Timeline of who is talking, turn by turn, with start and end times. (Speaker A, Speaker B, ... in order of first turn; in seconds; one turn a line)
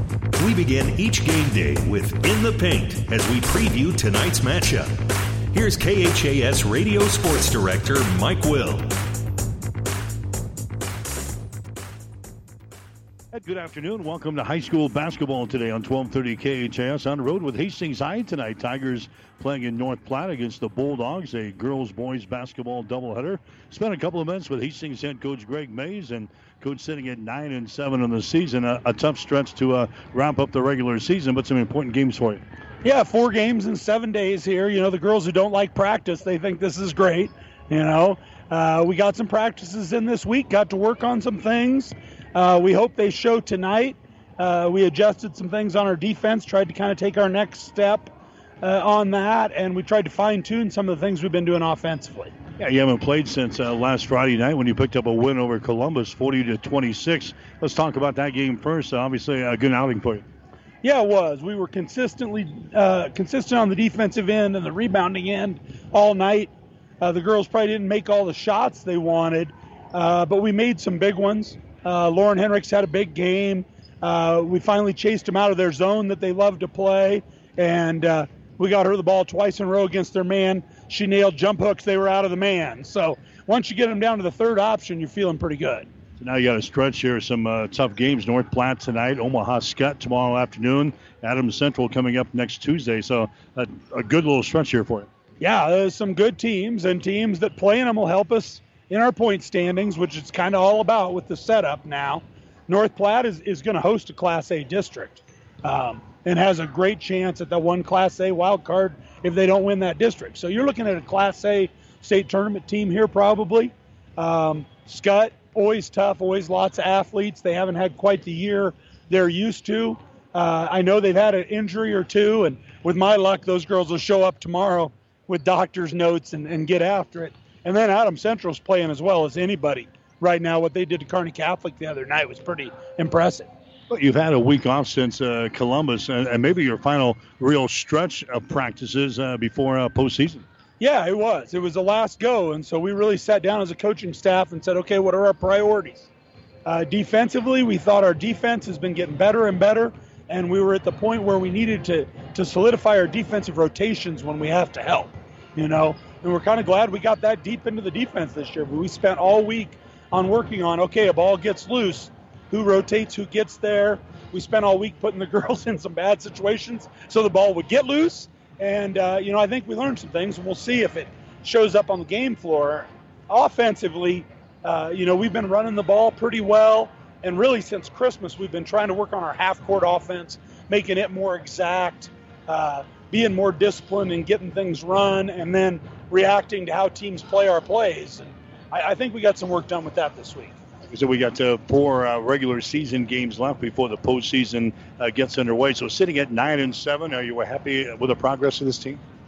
Speaker A: 0.4-5.0
Speaker A: 5.5-9.0
Speaker B: 13.3-32.4
Speaker C: 32.8-52.3
Speaker B: 52.6-60.2
Speaker C: 60.8-85.9
Speaker B: 86.2-95.1
Speaker C: 95.4-133.5
Speaker B: 133.9-140.4
Speaker C: 140.8-146.1
Speaker C: 146.7-190.6
Speaker B: 190.9-199.0